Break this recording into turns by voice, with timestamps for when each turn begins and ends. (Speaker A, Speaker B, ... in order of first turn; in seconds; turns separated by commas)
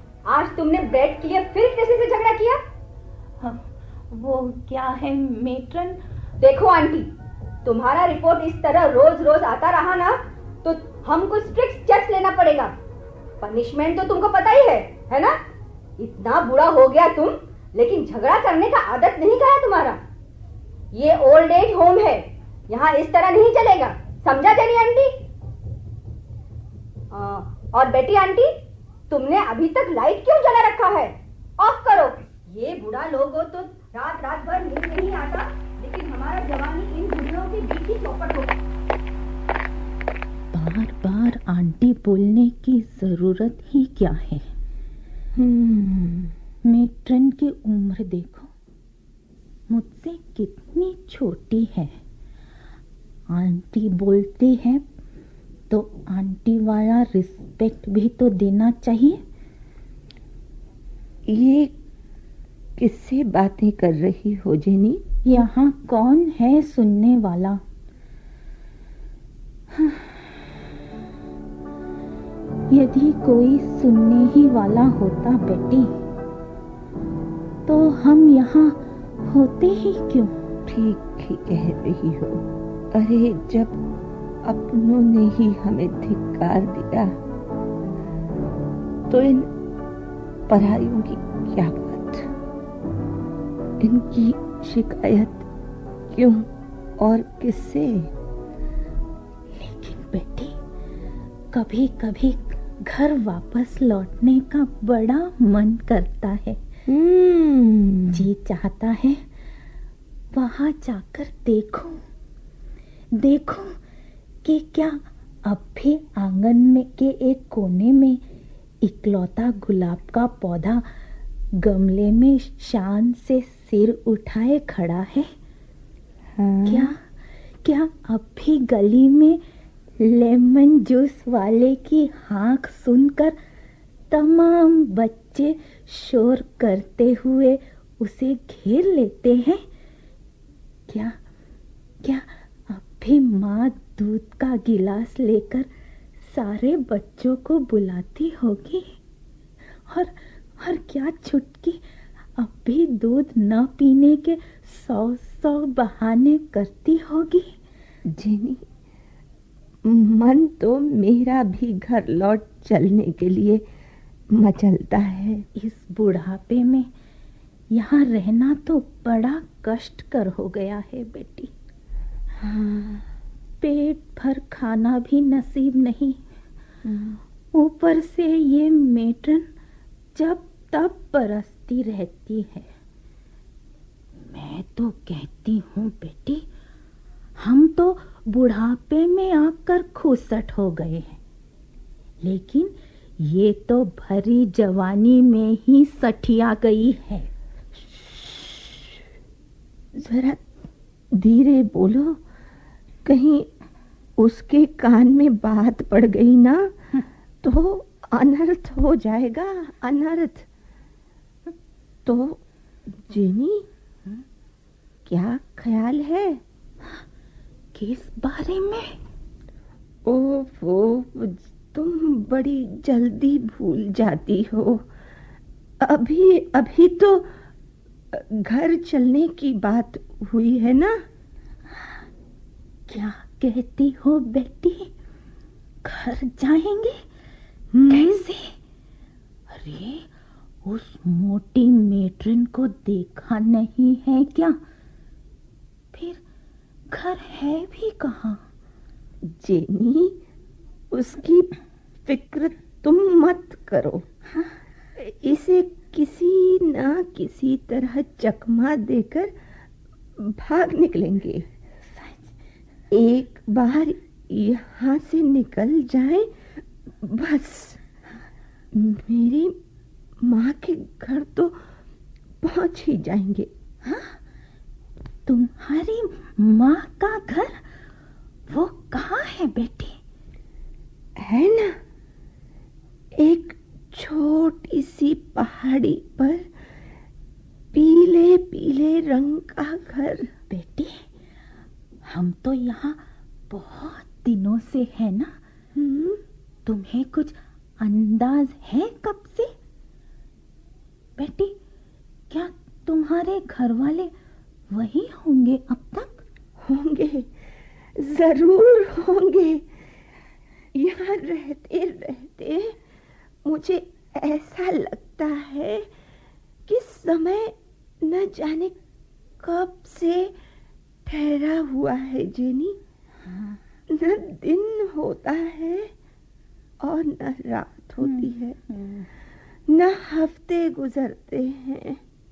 Speaker A: 0.3-2.6, Speaker B: 3.4-6.0, Speaker A: 6.4-7.1, Speaker A: 7.7-12.7, Speaker A: 13.4-15.4, Speaker A: 16.0-20.0, Speaker A: 20.9-25.2, Speaker A: 27.1-28.5, Speaker A: 29.1-38.5, Speaker B: 40.5-44.4, Speaker C: 45.4-46.3, Speaker B: 46.6-48.5, Speaker B: 49.7-52.0, Speaker B: 53.3-54.8, Speaker B: 55.7-59.2, Speaker C: 61.3-61.8, Speaker C: 62.8-65.0, Speaker B: 65.2-67.6, Speaker B: 69.7-70.4, Speaker B: 72.7-75.9, Speaker B: 77.7-80.3, Speaker C: 80.7-83.8, Speaker C: 84.4-87.2, Speaker C: 89.1-89.5, Speaker C: 90.5-92.3, Speaker C: 93.8-95.5, Speaker C: 96.1-98.1, Speaker B: 99.5-100.5, Speaker B: 101.5-106.6, Speaker C: 106.9-108.2, Speaker B: 108.1-109.2, Speaker B: 110.3-112.0, Speaker B: 113.2-113.8, Speaker B: 114.4-118.2, Speaker B: 118.8-120.8, Speaker B: 121.6-125.3, Speaker C: 126.4-126.9, Speaker B: 126.7-127.0, Speaker B: 127.6-129.4, Speaker B: 130.0-133.4, Speaker B: 134.1-139.6, Speaker B: 140.9-141.2, Speaker B: 142.0-145.7, Speaker B: 146.2-148.9, Speaker B: 149.9-151.8, Speaker B: 152.4-157.5, Speaker C: 158.1-158.7, Speaker C: 159.8-163.6, Speaker C: 164.3-165.5, Speaker B: 165.6-166.9, Speaker B: 167.7-171.5, Speaker C: 172.4-173.1, Speaker B: 173.6-176.2, Speaker C: 176.8-177.2, Speaker B: 177.5-179.5, Speaker B: 180.2-182.7, Speaker B: 184.3-186.4, Speaker B: 187.4-191.2, Speaker B: 192.2-197.3, Speaker C: 198.1-198.6, Speaker C: 200.0-200.4, Speaker C: 201.1-202.2, Speaker C: 203.1-203.5, Speaker C: 204.2-206.7, Speaker C: 207.4-210.5, Speaker C: 212.1-213.7, Speaker C: 215.1-216.4, Speaker B: 217.8-219.0, Speaker C: 220.1-224.8, Speaker C: 225.8-227.3, Speaker C: 228.1-231.0, Speaker B: 232.9-234.9, Speaker B: 235.8-237.0, Speaker C: 237.7-238.2, Speaker B: 237.9-238.6, Speaker B: 239.5-240.1, Speaker B: 240.7-244.6, Speaker B: 245.9-246.2, Speaker B: 246.9-248.4, Speaker C: 249.3-250.2, Speaker C: 250.9-251.5, Speaker C: 252.1-254.1, Speaker C: 255.0-259.3, Speaker C: 260.2-261.5, Speaker B: 261.9-262.3, Speaker C: 262.9-266.3, Speaker C: 267.0-267.8, Speaker C: 268.7-269.6, Speaker C: 270.2-271.6, Speaker C: 272.4-273.5, Speaker B: 273.8-274.2, Speaker B: 275.3-277.6, Speaker B: 278.5-279.9, Speaker C: 281.2-281.8, Speaker C: 283.2-286.5, Speaker C: 287.7-290.3, Speaker B: 290.5-291.1, Speaker B: 292.1-295.4, Speaker C: 295.8-296.2, Speaker B: 296.7-299.5, Speaker B: 301.2-301.6, Speaker B: 302.3-304.1, Speaker B: 304.7-306.2, Speaker C: 306.6-307.3, Speaker C: 308.0-309.7, Speaker C: 310.8-312.8, Speaker C: 313.4-315.9, Speaker C: 316.7-318.8, Speaker C: 319.4-320.3, Speaker C: 321.1-322.8, Speaker B: 323.3-323.6, Speaker C: 323.9-325.9, Speaker C: 326.8-328.6, Speaker B: 328.0-329.1, Speaker C: 329.7-332.0